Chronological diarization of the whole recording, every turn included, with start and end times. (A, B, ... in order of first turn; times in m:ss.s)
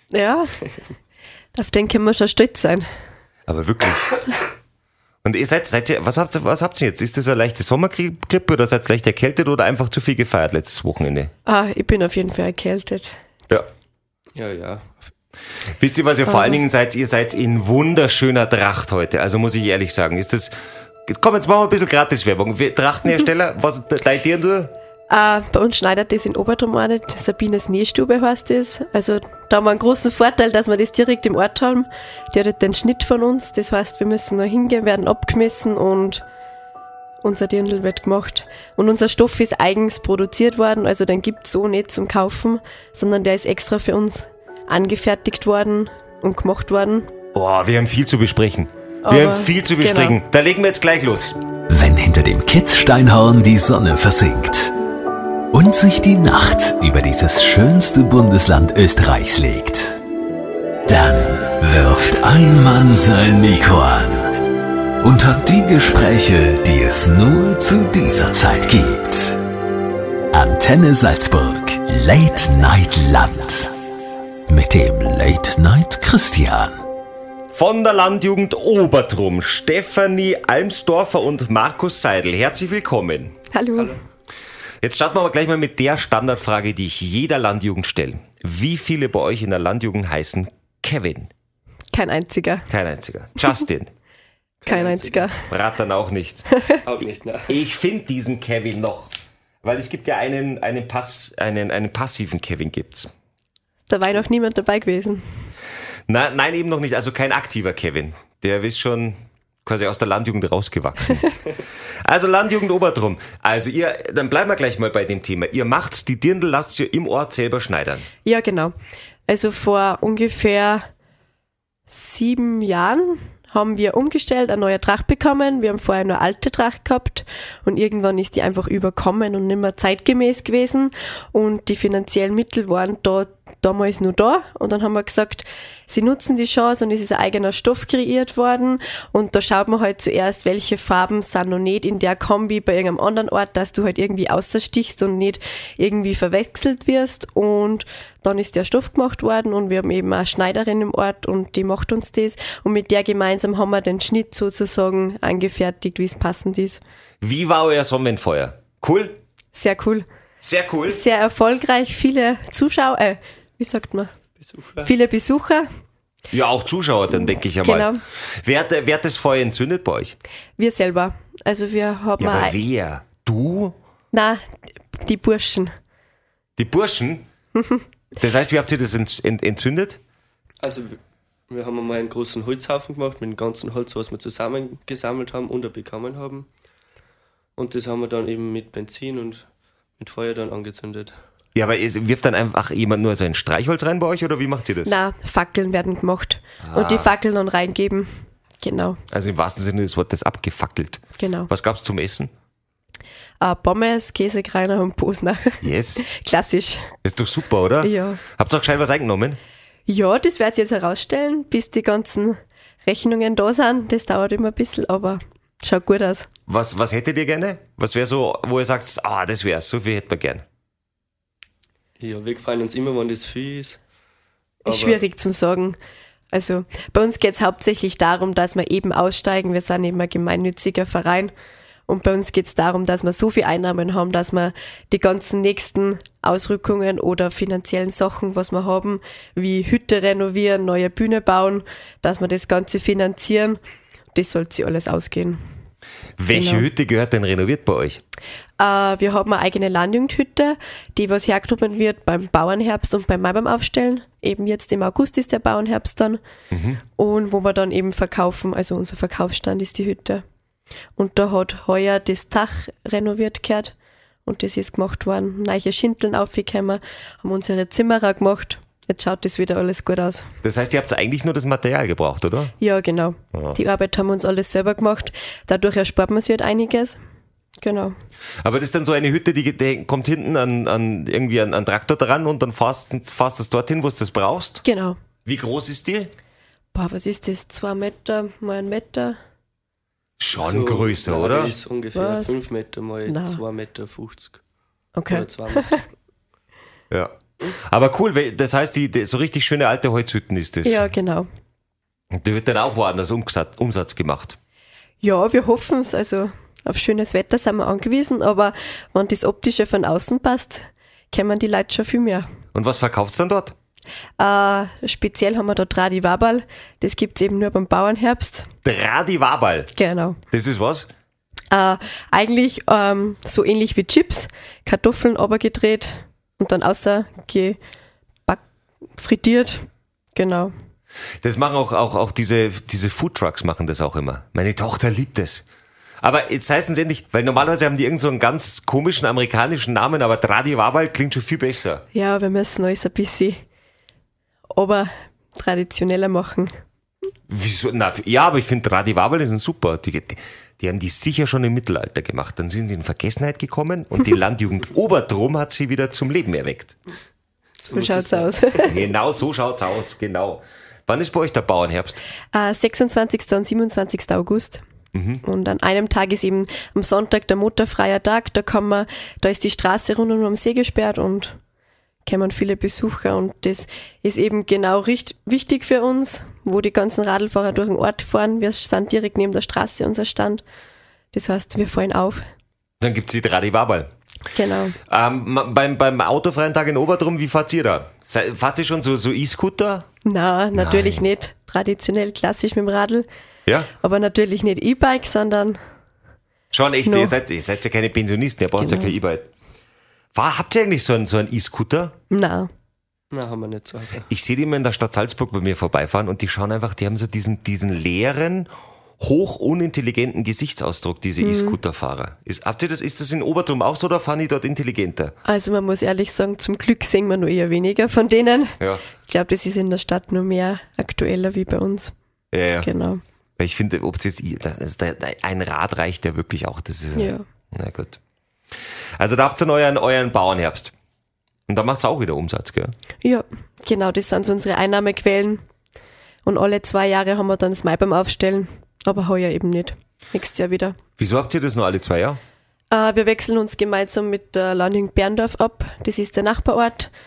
0:00.1-0:00.5 A
0:01.6-0:02.9 A
0:03.5-0:04.4 B
0:05.2-0:11.3 B
0:11.5-0:13.2 A
0:14.4-0:15.1 C
0:15.8-0:20.6 B
0:16.3-0:16.6 A
0:21.1-0:24.7 B
0:25.1-0:36.2 A
0:37.2-0:47.1 A
0:47.3-0:51.4 B
0:49.0-0:50.2 A
0:51.7-0:54.7 D
0:55.5-1:00.0 D
1:00.9-1:04.4 D
1:05.0-1:09.4 D
1:10.3-1:13.8 D
1:14.5-1:16.8 D
1:17.5-1:23.4 B
1:23.5-1:24.0 A
1:23.8-1:24.0 C
1:24.8-1:31.3 B
1:31.9-1:32.7 A
1:32.7-1:33.9 B
1:34.6-1:35.3 C
1:34.7-1:35.4 A
1:35.5-1:36.4 B
1:36.8-1:37.6 C
1:37.5-1:39.1 B
1:39.6-1:43.1 B
1:43.9-1:45.2 A
1:46.1-1:51.4 B
1:52.0-1:58.1 B
1:58.2-1:58.7 A
1:59.3-2:00.9 A
2:01.9-2:36.8 A
2:37.2-2:39.2 B
2:39.5-2:40.1 A
2:40.4-2:41.0 B
2:40.9-2:44.1 A
2:44.4-2:44.9 C
2:44.8-2:45.7 A
2:46.3-2:50.2 B
2:47.6-2:48.0 A
2:50.6-2:52.6 A
2:52.2-2:53.8 B
2:54.1-2:54.4 A
2:55.0-2:55.7 A
2:56.6-2:57.3 B
2:58.2-3:00.0 B
3:00.6-3:01.0 C
3:01.5-3:06.5 C
3:07.6-3:09.5 C
3:10.0-3:11.1 C
3:11.6-3:15.0 B
3:14.8-3:19.0 A
3:16.6-3:17.1 B
3:19.1-3:22.3 B
3:21.2-3:21.5 A
3:23.4-3:26.9 A
3:25.6-3:26.1 B
3:27.0-3:29.4 B
3:27.8-3:28.2 A
3:29.9-3:36.3 A
3:36.5-3:40.4 B
3:42.0-3:43.8 C
3:44.6-3:45.8 A
3:44.7-3:45.0 C
3:46.3-3:51.3 A
3:51.9-4:03.6 A
4:04.1-4:05.4 A
4:06.2-4:08.0 B
4:06.3-4:06.7 A
4:08.6-4:16.2 A
4:16.5-4:16.8 B
4:17.0-4:20.2 A
4:21.0-4:23.8 A
4:24.3-4:30.3 A
4:30.4-4:32.5 B
4:32.6-4:37.0 A
4:37.6-4:37.9 A
4:38.4-4:44.6 B
4:44.6-4:45.0 A
4:45.2-4:46.1 B
4:46.8-4:49.2 A
4:50.2-4:51.5 B
4:50.4-4:54.4 C
4:51.9-4:52.4 A
4:53.1-4:53.4 A
4:55.0-4:55.8 A
4:55.1-4:55.8 C
4:56.9-5:00.8 B
5:00.6-5:01.3 A
5:02.1-5:04.4 B
5:05.0-5:12.3 A
5:12.5-5:13.6 B
5:14.2-5:18.5 A
5:18.6-5:19.7 B
5:19.8-5:20.2 A
5:20.3-5:20.9 B
5:21.5-5:27.6 A
5:29.0-5:30.5 A
5:31.2-5:35.4 B
5:36.0-5:41.8 B
5:41.9-5:43.4 A
5:44.5-5:46.5 A
5:47.3-5:56.8 B
5:57.6-5:58.6 C
5:57.7-5:58.8 A
5:58.6-6:02.0 B
6:02.3-6:04.6 A
6:04.9-6:05.2 B
6:05.2-6:11.4 A
6:12.1-6:20.4 A
6:21.1-6:22.2 A
6:22.8-6:23.9 B
6:24.4-6:24.8 A
6:24.8-6:29.9 B
6:30.0-6:33.1 A
6:30.6-6:31.0 B
6:33.5-6:33.7 B
6:33.8-6:35.6 A
6:36.5-6:39.3 B
6:36.8-6:37.2 A
6:38.6-6:39.0 A
6:40.1-6:42.0 B
6:42.1-6:42.5 A
6:43.1-6:44.1 C
6:44.1-6:55.1 B
6:51.2-6:51.6 A
6:55.3-7:01.9 A
6:58.6-6:58.9 B
7:02.3-7:02.7 B
7:02.6-7:03.0 A
7:03.4-7:08.0 B
7:07.0-7:07.2 A
7:09.0-7:10.7 B
7:11.5-7:12.8 B
7:13.0-7:15.4 A
7:16.3-7:20.8 A
7:21.0-7:22.2 B
7:22.7-7:26.9 A